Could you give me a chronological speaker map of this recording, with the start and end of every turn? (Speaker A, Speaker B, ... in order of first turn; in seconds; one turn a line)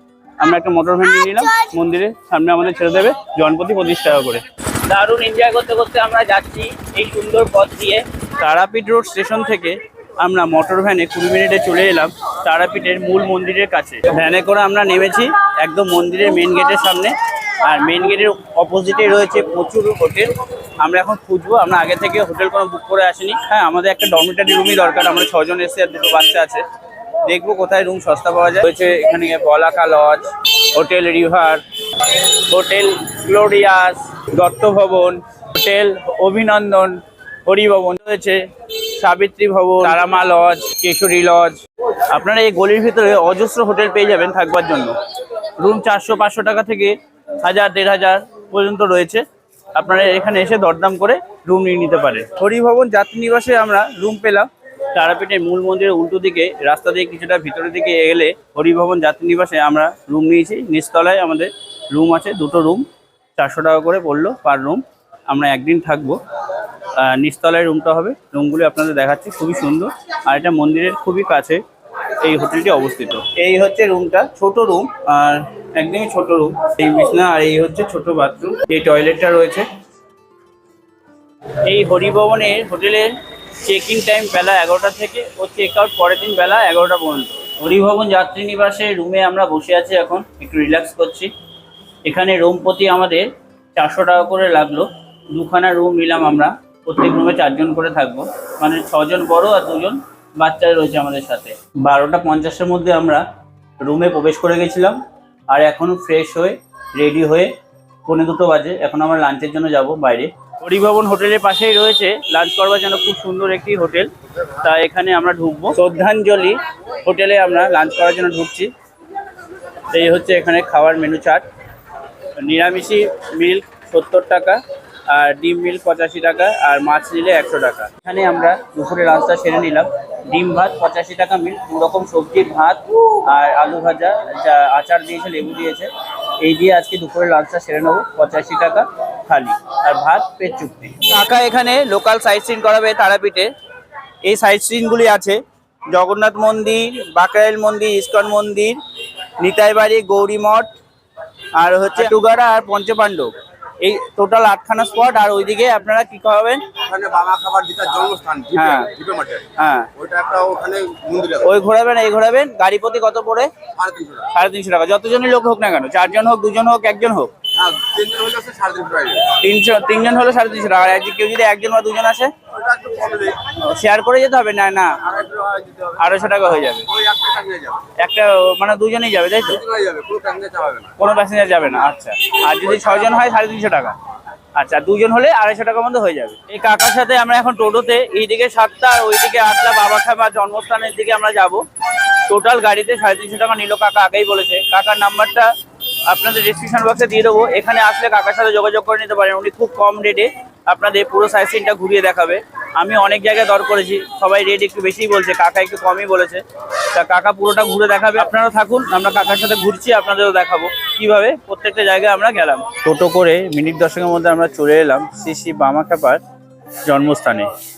Speaker A: 0.4-20.3
Speaker A: 20.8-26.6
Speaker A: 27.2-45.0
Speaker A: 45.6-49.2
Speaker A: 49.7-62.8
Speaker A: 63.4-66.2
Speaker A: 67.0-79.6
Speaker A: 81.6-83.1
Speaker A: 83.6-91.3
Speaker A: 92.0-93.2
Speaker A: 93.8-103.2
Speaker A: 103.8-105.0
Speaker A: 105.5-107.5
Speaker A: 108.0-118.7
Speaker A: 119.9-121.4
Speaker A: 122.4-143.5
Speaker A: 144.2-145.4
Speaker A: 145.9-148.8
Speaker A: 149.4-150.7
Speaker A: 151.5-156.8
Speaker B: 156.9-158.5
Speaker A: 158.5-160.0
Speaker B: 160.0-161.4
Speaker A: 161.3-163.5
Speaker B: 163.8-164.1
Speaker A: 164.2-167.4
Speaker B: 167.6-169.2
Speaker A: 169.2-172.3
Speaker A: 172.8-176.9
Speaker A: 177.8-179.7
Speaker B: 179.8-180.8
Speaker A: 180.9-183.9
Speaker A: 184.6-195.5
Speaker A: 196.1-216.2
Speaker A: 216.9-217.5